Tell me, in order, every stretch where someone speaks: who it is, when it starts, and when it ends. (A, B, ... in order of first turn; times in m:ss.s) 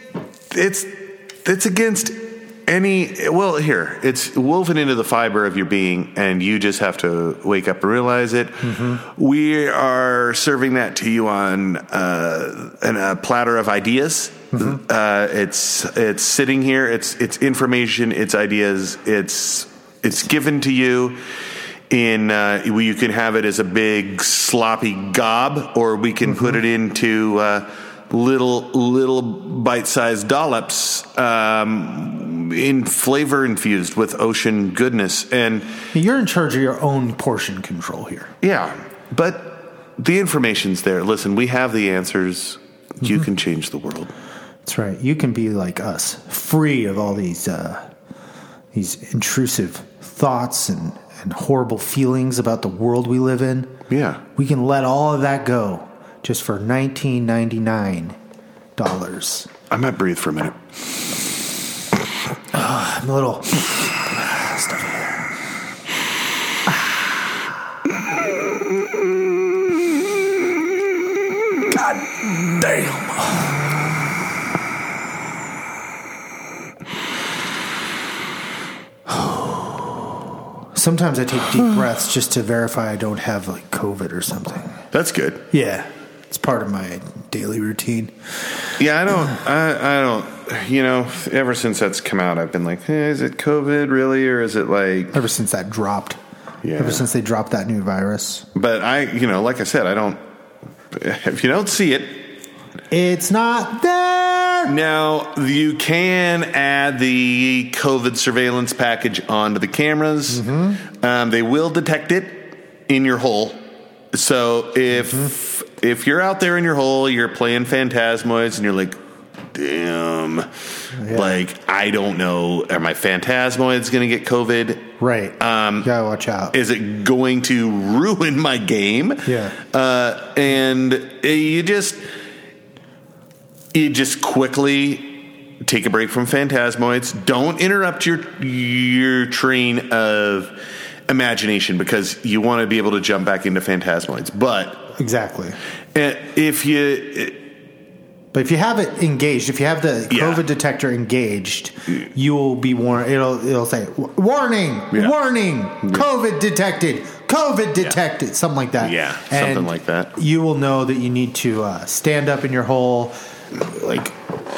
0:00.5-0:21.2 A
0:08.6-0:09.0 B
0:21.9-0:35.8 A
0:26.3-0:26.6 B
0:35.9-0:38.3 B
0:38.4-0:44.1 A
0:44.6-0:47.9 B
0:48.7-0:53.7 B
0:53.9-0:54.2 A
0:54.4-0:58.2 B
0:58.8-0:59.5 B
0:59.7-1:00.6 A
1:02.5-1:05.3 B
1:11.7-1:13.6 B
1:20.7-1:24.8 B
1:24.9-1:25.4 A
1:25.5-1:28.1 B
1:28.8-1:35.2 A
1:35.1-1:36.2 B
1:36.6-1:37.0 A
1:36.8-1:38.4 B
1:38.5-1:40.2 A
1:40.9-1:42.3 A
1:42.9-1:44.7 B
1:44.6-1:59.0 A
1:50.3-1:50.8 B
1:59.5-2:00.5 A
2:01.0-2:01.4 B
2:01.1-2:05.9 A
2:05.0-2:06.5 B
2:06.5-2:12.0 A
2:09.2-2:09.6 B
2:13.7-2:20.6 A
2:21.1-2:24.9 A
2:24.9-2:25.6 B
2:25.9-2:27.4 A
2:28.3-2:44.2 B
2:30.1-2:30.4 A
2:38.8-2:40.1 A